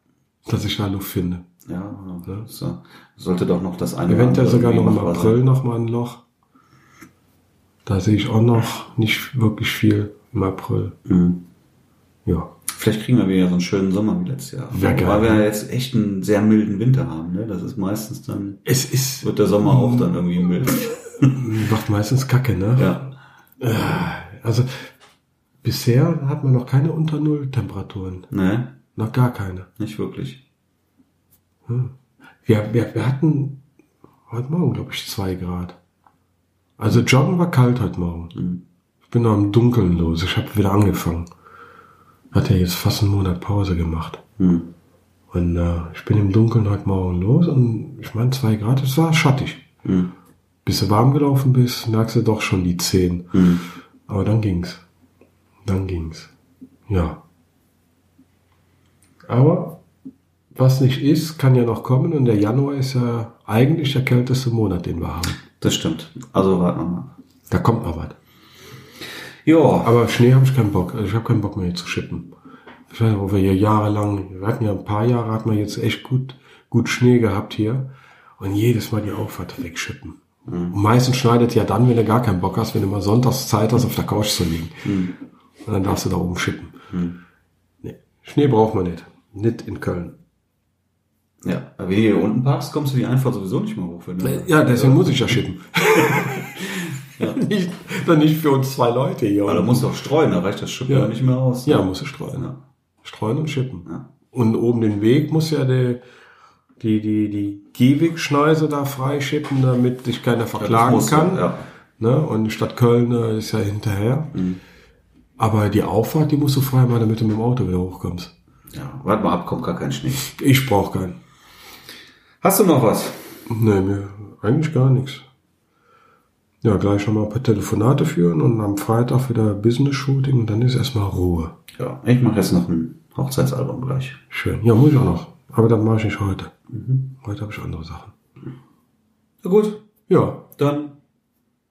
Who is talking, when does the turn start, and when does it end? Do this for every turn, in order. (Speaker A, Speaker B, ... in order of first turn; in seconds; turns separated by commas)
Speaker A: 0.5-1.4, Speaker B: 1.6-5.4, Speaker A: 4.1-6.2, Speaker A: 7.8-10.9, Speaker B: 11.1-11.4, Speaker A: 12.2-12.5, Speaker B: 12.7-18.6, Speaker A: 14.7-15.5, Speaker A: 18.6-20.1, Speaker B: 19.2-21.5, Speaker A: 21.2-22.9, Speaker B: 22.8-23.1, Speaker A: 23.6-24.8, Speaker A: 25.6-28.3, Speaker B: 28.3-28.7, Speaker A: 28.9-29.7, Speaker B: 29.8-30.4, Speaker A: 31.7-31.9, Speaker A: 32.4-33.6, Speaker A: 34.3-35.8, Speaker A: 36.8-38.4, Speaker B: 38.3-38.6, Speaker A: 39.1-41.3, Speaker A: 42.3-44.2, Speaker B: 44.4-44.7, Speaker A: 45.3-49.7, Speaker B: 49.8-50.1, Speaker A: 50.6-53.4, Speaker B: 53.3-53.6, Speaker A: 54.1-54.8, Speaker A: 55.6-56.3, Speaker A: 56.9-57.2, Speaker A: 59.2-59.8, Speaker A: 60.5-65.4, Speaker B: 65.5-67.1, Speaker A: 67.5-68.2, Speaker B: 69.4-69.9, Speaker A: 69.8-72.3, Speaker A: 72.9-80.2, Speaker B: 80.5-80.8, Speaker A: 80.7-84.9, Speaker B: 84.8-85.1, Speaker A: 85.7-86.8, Speaker B: 86.9-87.2, Speaker A: 87.8-90.2, Speaker B: 91.4-95.4, Speaker A: 94.2-99.9, Speaker B: 95.9-97.4, Speaker B: 99.5-102.6, Speaker A: 100.9-101.1, Speaker A: 101.6-102.5, Speaker A: 103.0-106.0, Speaker A: 106.8-111.5, Speaker B: 110.6-111.7, Speaker A: 112.0-114.4, Speaker B: 114.3-114.6, Speaker A: 115.4-118.3, Speaker B: 118.7-120.2, Speaker A: 120.2-121.2, Speaker B: 122.4-123.3, Speaker A: 123.5-125.2, Speaker A: 126.6-131.6, Speaker B: 131.8-134.2, Speaker A: 134.3-136.5, Speaker B: 136.7-137.0, Speaker A: 137.2-138.1, Speaker B: 139.4-139.8, Speaker A: 140.1-140.4, Speaker B: 140.6-141.0